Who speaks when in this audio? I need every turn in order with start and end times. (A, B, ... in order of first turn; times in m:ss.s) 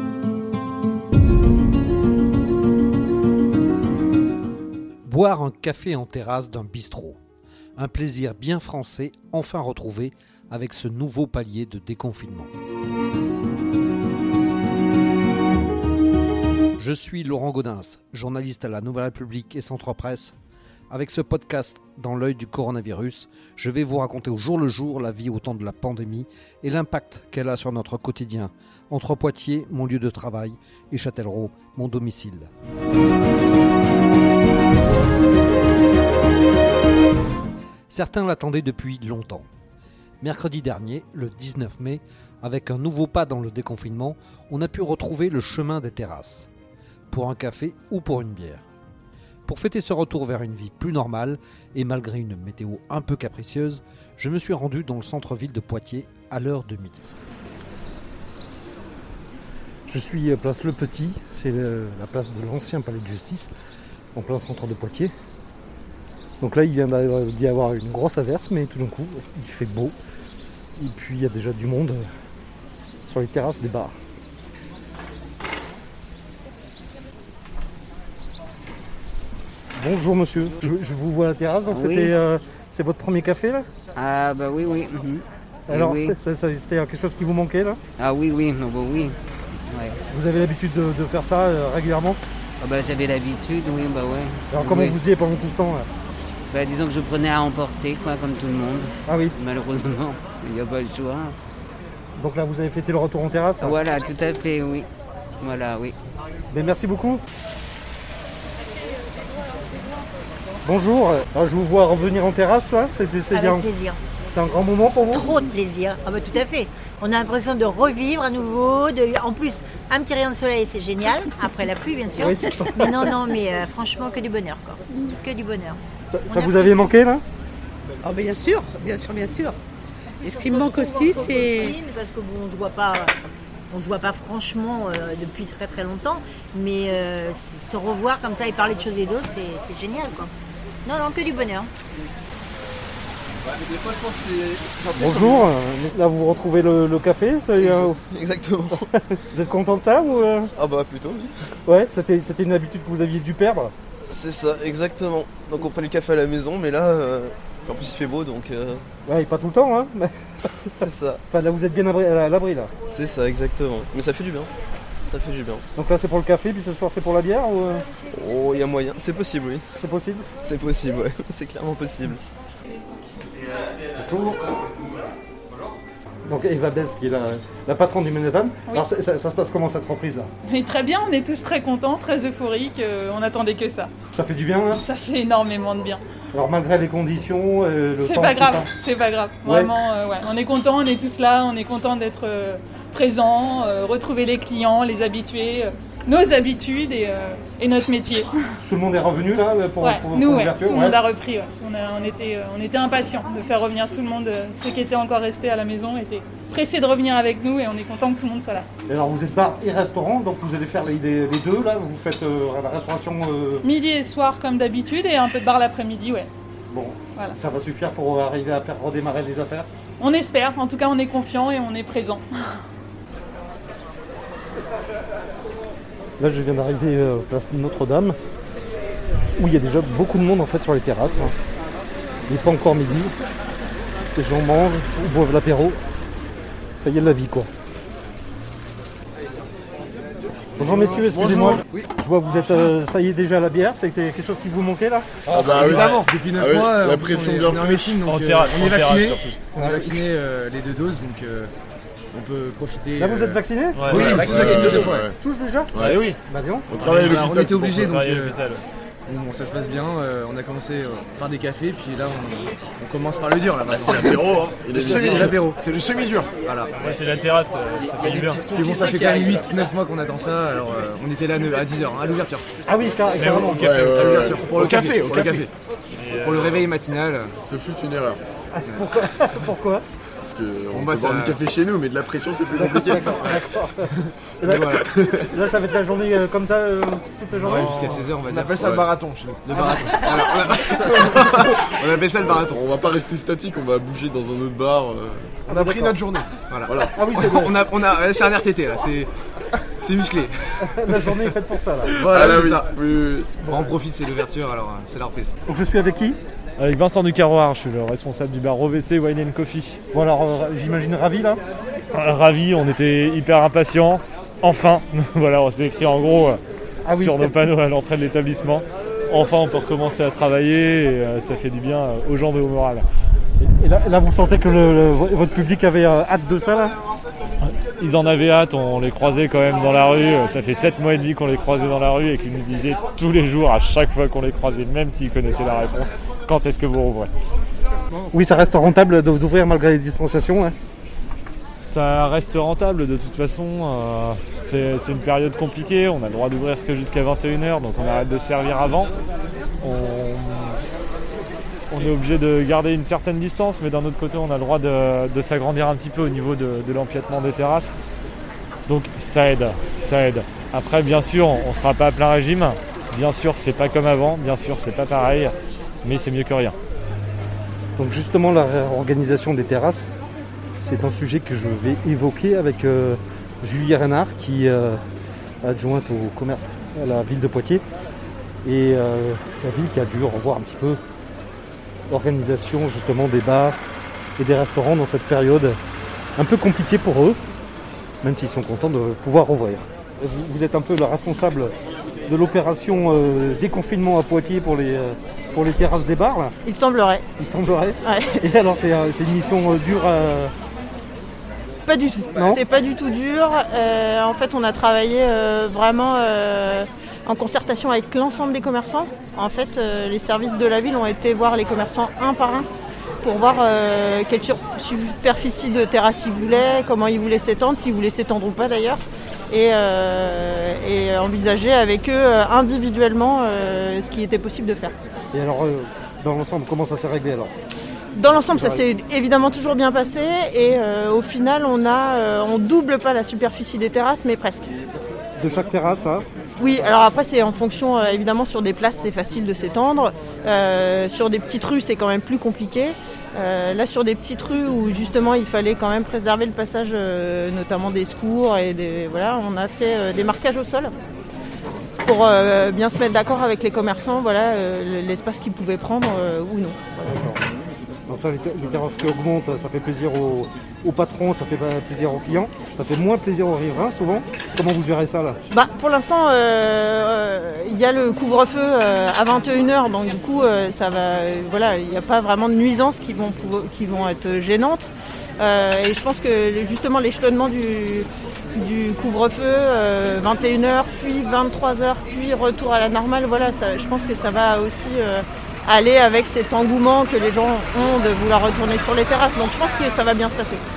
0:05.0-0:07.2 A
0:07.8-0:12.5 A
0:16.8-0:20.4 A
0:20.9-0:32.5 A
0:37.9-0:39.5 A
0:40.2-0:46.5 A
0:47.1-0:48.6 A
0:49.5-0:57.2 A
0:59.9-1:03.5 B
1:04.2-1:05.1 B
1:06.4-1:10.0 B
1:10.8-1:12.1 B
1:13.1-1:13.9 B
1:19.8-1:23.7 B
1:21.7-1:22.1 C
1:24.0-1:26.2 C
1:25.7-1:27.8 B
1:28.0-1:29.2 C
1:29.7-1:30.0 C
1:30.1-1:32.2 B
1:32.6-1:35.0 C
1:34.5-1:35.9 B
1:36.5-1:41.4 C
1:39.1-1:39.4 B
1:42.2-1:43.8 B
1:43.6-1:44.9 C
1:45.4-1:46.0 C
1:46.5-1:47.2 B
1:50.6-1:53.7 B
1:53.3-1:54.0 D
1:54.3-1:55.3 B
1:55.1-2:06.9 D
2:02.2-2:03.1 B
2:06.1-2:07.2 B
2:08.0-2:09.6 E
2:10.2-2:11.8 E
2:10.2-2:13.1 D
2:13.7-2:20.3 D
2:20.8-2:21.7 D
2:24.7-2:25.5 F
2:25.0-2:28.0 B
2:27.6-2:28.9 F
2:29.3-2:30.5 B
2:30.6-2:31.4 F
2:31.7-2:33.7 B
2:34.1-2:38.8 F
2:39.1-2:40.4 B
2:40.8-2:41.2 F
2:41.3-2:42.7 B
2:42.9-2:44.5 F
2:45.0-2:45.6 F
2:45.8-2:47.8 B
2:48.1-2:49.7 F
2:49.8-2:50.3 B
2:50.4-2:52.2 F
2:53.9-2:54.7 B
2:56.2-3:00.3 B
3:00.5-3:03.9 G
3:04.1-3:04.8 B
3:04.8-3:06.0 G
3:06.3-3:08.7 B
3:08.0-3:18.3 G
3:09.4-3:09.7 B
3:18.7-3:21.0 B
3:19.8-3:28.7 G
3:28.9-3:33.6 B
3:33.6-3:36.3 G
3:36.7-3:39.7 B
3:40.0-3:42.3 G
3:46.2-3:48.2 B
3:49.4-3:51.3 B
3:52.3-3:53.1 B
3:54.2-3:55.8 B
3:56.8-3:57.5 B
4:00.6-4:05.7 B
4:00.6-4:01.9 H
4:01.2-4:01.6 I
4:05.3-4:08.0 I
4:05.5-4:11.5 H
4:08.0-4:09.2 J
4:09.6-4:10.1 B
4:12.1-4:15.1 H
4:13.0-4:14.0 B
4:13.8-4:14.3 J
4:13.9-4:15.2 I
4:15.2-4:16.7 B
4:15.7-4:16.2 I
4:15.8-4:16.2 H
4:15.8-4:16.1 J
4:16.7-4:18.0 I
4:16.7-4:18.4 H
4:17.8-4:18.6 J
4:19.1-4:27.3 H
4:23.8-4:25.6 I
4:26.7-4:29.7 J
4:27.8-4:32.5 H
4:32.7-4:33.9 B
4:33.2-4:35.5 H
4:33.4-4:35.5 I
4:36.0-4:36.6 J
4:36.0-4:37.4 H
4:37.4-4:38.2 I
4:38.6-4:39.8 B
4:38.7-4:38.9 H
4:40.2-4:43.4 I
4:40.7-4:41.4 H
4:42.5-4:48.1 B
4:44.4-4:45.0 H
4:47.3-4:52.6 H
4:48.3-4:48.9 I
4:52.4-4:55.5 I
4:55.5-4:59.1 H
4:55.5-4:56.0 B
4:56.7-4:56.9 I
4:56.9-4:57.6 B
4:59.8-5:01.2 H
5:00.7-5:02.0 B
5:02.0-5:02.8 H
5:02.0-5:03.4 I
5:03.5-5:03.8 B
5:03.5-5:05.4 H
5:05.5-5:06.2 B
5:06.6-5:09.8 J
5:09.9-5:11.4 B
5:11.9-5:16.4 J
5:16.8-5:17.5 B
5:16.9-5:22.8 J
5:23.4-5:26.8 B
5:27.4-5:37.1 J
5:38.1-5:40.6 B
5:41.5-5:48.9 J
5:49.6-5:50.6 J
5:51.7-5:57.8 J
5:58.7-6:05.3 J
6:05.8-6:06.6 J
6:07.8-6:09.9 B
6:10.6-6:14.8 B
6:15.4-6:17.6 B
6:18.4-6:20.8 B
6:21.9-6:23.6 B
6:24.2-6:25.6 B
6:26.2-6:27.2 B
6:28.0-6:31.5 B
6:32.1-6:36.4 B
6:36.4-6:37.1 K
6:37.2-6:40.3 B
6:37.8-6:38.2 K
6:41.7-6:52.5 K
6:42.1-6:42.4 B
6:53.0-7:04.7 K
7:05.1-7:07.3 B
7:08.0-7:14.5 K
7:08.3-7:08.6 B
7:15.2-7:16.1 B
7:16.4-7:30.7 K
7:31.8-7:36.6 K
7:36.8-7:37.2 B
7:37.9-7:45.2 B
7:45.3-8:10.4 K